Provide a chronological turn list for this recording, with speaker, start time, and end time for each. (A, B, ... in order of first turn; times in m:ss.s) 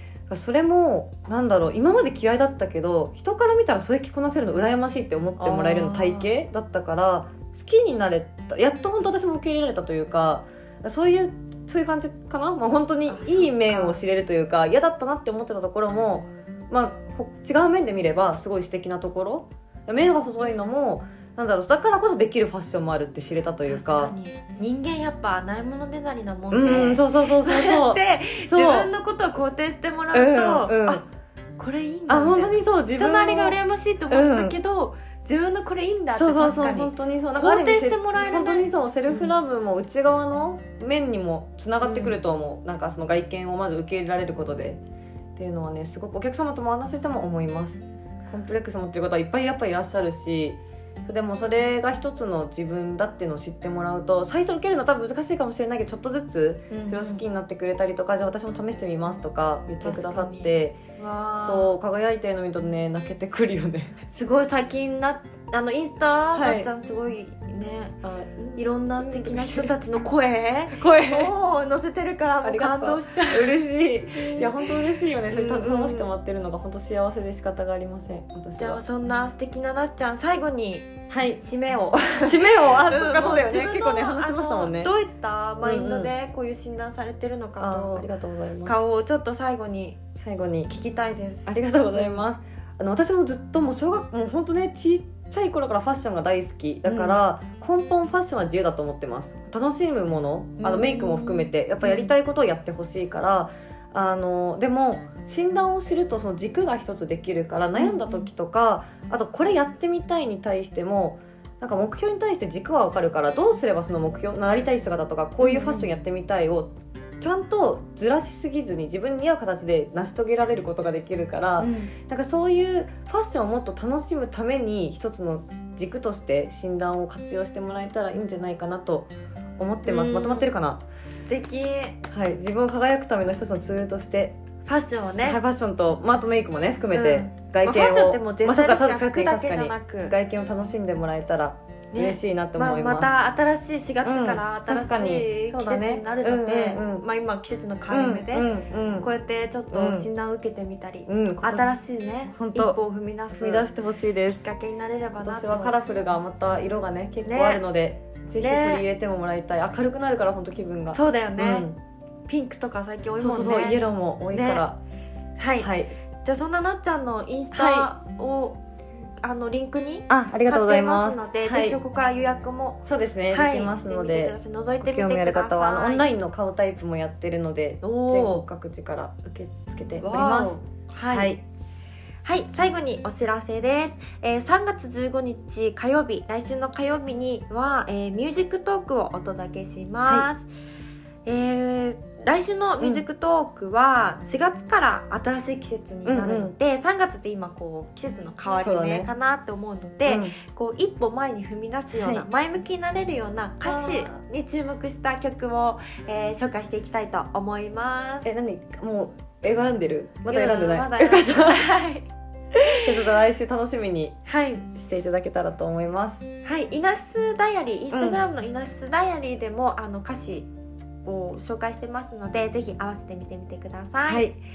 0:00.3-0:24.1 A
0:05.4-0:06.3 B
0:13.1-0:14.0 B
0:23.7-0:31.0 B
0:26.5-0:28.9 A
0:30.1-0:31.0 A
0:31.6-0:39.4 B
0:32.1-0:33.6 A
0:34.1-0:34.6 A
0:36.2-0:44.8 A
0:41.8-0:42.2 B
0:45.4-1:00.8 A
0:56.7-0:57.2 B
0:59.8-1:01.8 B
1:01.4-1:04.0 A
1:04.1-1:08.0 B
1:06.3-1:06.7 A
1:08.0-1:09.7 A
1:08.6-1:16.1 B
1:10.8-1:11.3 A
1:12.4-1:18.8 A
1:18.6-1:28.1 B
1:21.1-1:21.4 A
1:22.2-1:24.9 A
1:25.6-1:26.1 A
1:27.6-1:28.8 A
1:28.6-1:30.0 B
1:30.2-1:30.7 A
1:30.7-1:32.2 B
1:31.5-2:10.8 A
1:36.8-1:37.2 B
1:40.6-1:42.1 B
1:47.7-1:48.3 B
1:55.4-1:55.9 B
2:01.6-2:01.9 B
2:09.8-2:10.5 B
2:11.2-2:12.0 B
2:12.1-2:14.4 A
2:14.7-2:15.4 B
2:15.2-2:23.1 A
2:16.9-2:20.1 B
2:21.9-2:33.7 B
2:24.0-2:27.0 A
2:27.9-2:29.1 A
2:29.7-2:30.1 A
2:31.1-2:31.8 A
2:32.3-2:32.8 A
2:33.3-2:34.5 A
2:34.3-2:35.8 B
2:35.2-2:41.8 A
2:37.2-2:37.6 B
2:38.4-2:38.8 B
2:40.9-2:41.7 B
2:42.3-2:44.7 B
2:43.2-2:44.8 A
2:45.4-2:45.7 B
2:45.6-2:45.9 A
2:46.2-2:48.6 B
2:47.5-2:47.9 A
2:49.2-2:56.1 B
2:50.1-2:51.8 A
2:52.8-3:01.4 A
2:57.8-2:58.4 B
3:00.0-3:01.3 B
3:02.2-3:10.5 B
3:10.0-3:10.3 A
3:11.2-3:28.3 B
3:16.0-3:16.5 A
3:18.6-3:19.1 A
3:20.1-3:20.4 A
3:21.9-3:22.3 A
3:23.6-3:24.2 A
3:28.2-3:31.7 A
3:30.3-3:33.1 B
3:32.8-3:34.2 A
3:34.3-3:34.7 B
3:34.7-3:36.3 A
3:36.4-3:40.5 B
3:37.9-3:38.2 A
3:41.0-3:44.3 B
3:44.0-3:44.4 A